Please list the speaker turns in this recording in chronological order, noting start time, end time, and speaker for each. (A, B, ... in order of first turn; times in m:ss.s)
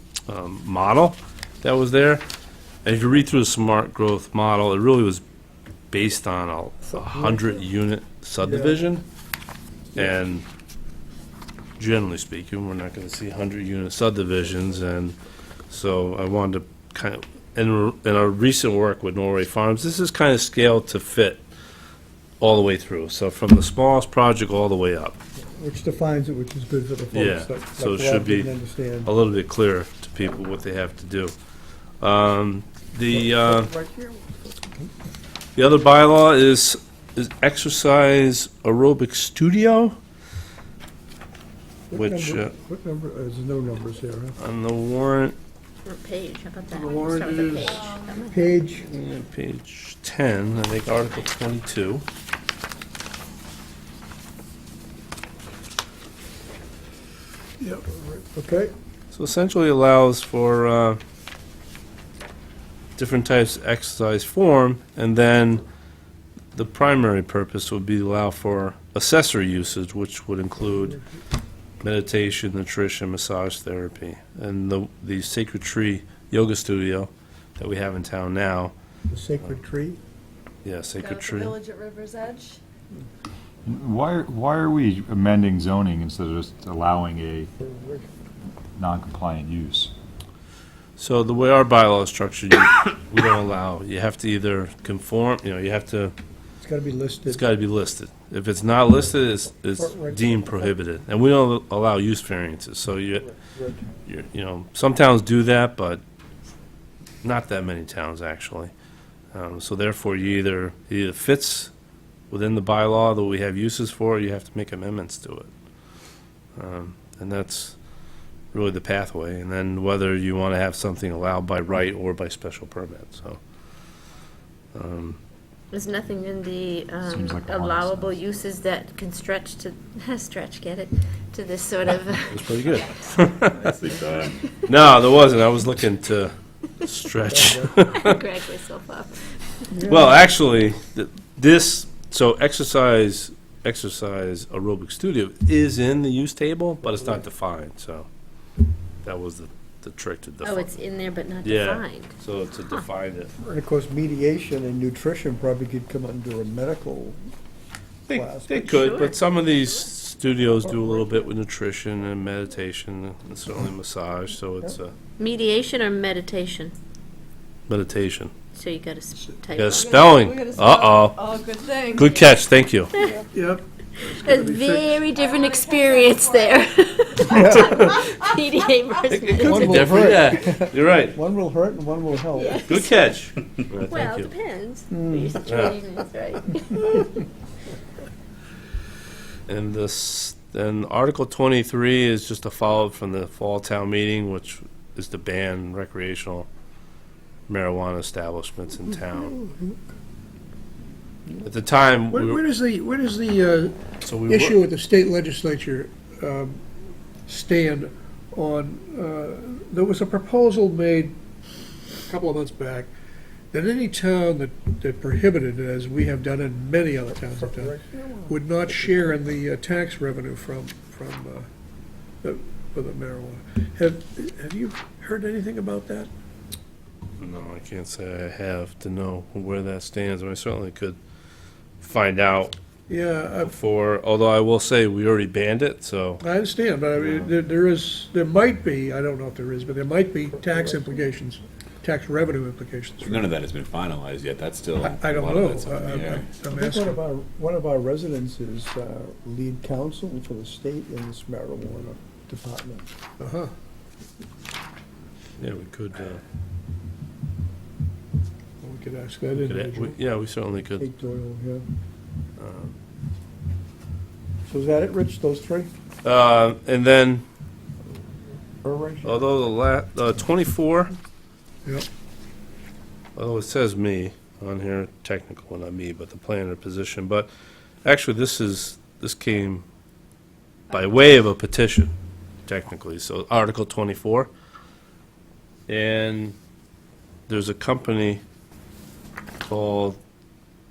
0:00.3-0:02.2 A
0:02.8-0:05.2 A
0:05.9-0:09.0 A
0:07.0-0:07.4 B
0:08.4-0:08.9 B
0:10.0-0:10.4 A
0:11.8-0:15.2 A
0:15.7-0:21.4 A
0:22.4-0:25.2 A
0:25.4-0:29.1 B
0:27.1-0:28.5 A
0:29.0-0:31.3 A
0:32.0-0:33.7 A
0:33.1-0:34.9 B
0:35.6-0:40.0 A
0:41.9-0:44.4 B
0:41.9-0:42.5 A
0:44.4-0:45.3 A
0:45.8-0:48.5 C
0:46.7-0:47.7 D
0:47.7-0:48.3 E
0:48.3-0:48.9 B
0:48.8-0:52.0 A
0:57.6-0:58.7 B
0:59.1-1:01.0 A
1:03.0-1:05.6 A
1:06.5-1:11.0 A
1:11.8-1:18.7 A
1:19.1-1:20.0 B
1:20.6-1:21.6 A
1:21.0-1:22.6 E
1:23.7-1:27.5 F
1:27.6-1:28.1 B
1:28.8-1:29.9 F
1:31.0-1:36.1 A
1:36.6-1:37.4 B
1:37.3-1:43.3 A
1:39.7-1:40.7 B
1:43.2-1:44.0 B
1:44.1-1:46.0 A
1:47.2-1:48.7 A
1:49.3-1:51.7 A
1:52.3-1:55.5 A
1:56.5-1:57.8 A
1:58.5-2:03.4 A
2:04.7-2:05.2 A
2:05.7-2:13.2 C
2:07.1-2:08.2 F
2:12.3-2:13.7 A
2:13.5-2:14.6 G
2:14.7-2:18.1 A
2:17.3-2:17.8 B
2:17.9-2:19.7 C
2:19.7-2:20.3 B
2:19.8-2:28.1 A
2:29.0-2:30.7 A
2:30.4-2:32.2 C
2:31.4-2:33.3 A
2:33.4-2:37.2 B
2:38.1-2:44.9 A
2:38.1-2:39.0 B
2:38.7-2:39.6 C
2:40.6-2:41.2 B
2:45.2-2:46.8 C
2:47.7-2:48.3 A
2:48.5-2:49.9 C
2:49.5-2:51.2 A
2:49.7-2:52.3 E
2:51.9-2:52.9 A
2:52.9-2:53.2 C
2:53.3-2:54.9 D
2:54.0-3:00.1 C
2:55.1-2:56.7 E
2:57.2-2:58.0 B
2:59.1-3:01.2 A
2:59.4-3:02.7 B
3:02.3-3:03.0 C
3:02.7-3:04.3 A
3:03.9-3:07.1 C
3:04.9-3:05.4 B
3:05.4-3:05.8 A
3:09.5-3:16.5 A
3:17.5-3:19.4 A
3:18.9-3:19.8 B
3:21.4-3:22.4 A
3:22.1-3:23.8 D
3:24.0-3:24.6 A
3:24.3-3:26.6 D
3:27.3-3:31.2 D
3:32.1-3:32.9 D
3:33.5-3:37.7 D
3:37.1-3:39.4 B
3:38.3-3:41.5 D
3:42.2-3:46.1 D
3:47.2-3:51.0 A
3:51.8-3:52.5 A
3:52.9-3:53.5 D
3:53.4-3:56.2 A
3:56.2-4:03.1 D
3:56.9-3:57.3 G
4:00.4-4:01.0 B
4:03.0-4:06.4 G
4:04.9-4:07.0 D
4:06.5-4:12.9 B
4:13.2-4:13.5 D
4:15.4-4:16.2 A
4:18.6-4:20.0 D
4:19.4-4:20.9 A
4:20.8-4:21.6 B
4:22.4-4:22.7 A
4:24.5-4:25.7 B
4:26.0-4:27.2 A
4:28.6-4:29.3 B
4:29.0-4:30.9 A
4:33.2-4:37.3 A
4:37.8-4:39.6 A
4:40.7-4:41.9 A
4:42.5-4:44.3 A
4:45.7-4:46.4 A
4:47.3-4:48.2 A
4:49.5-4:50.0 A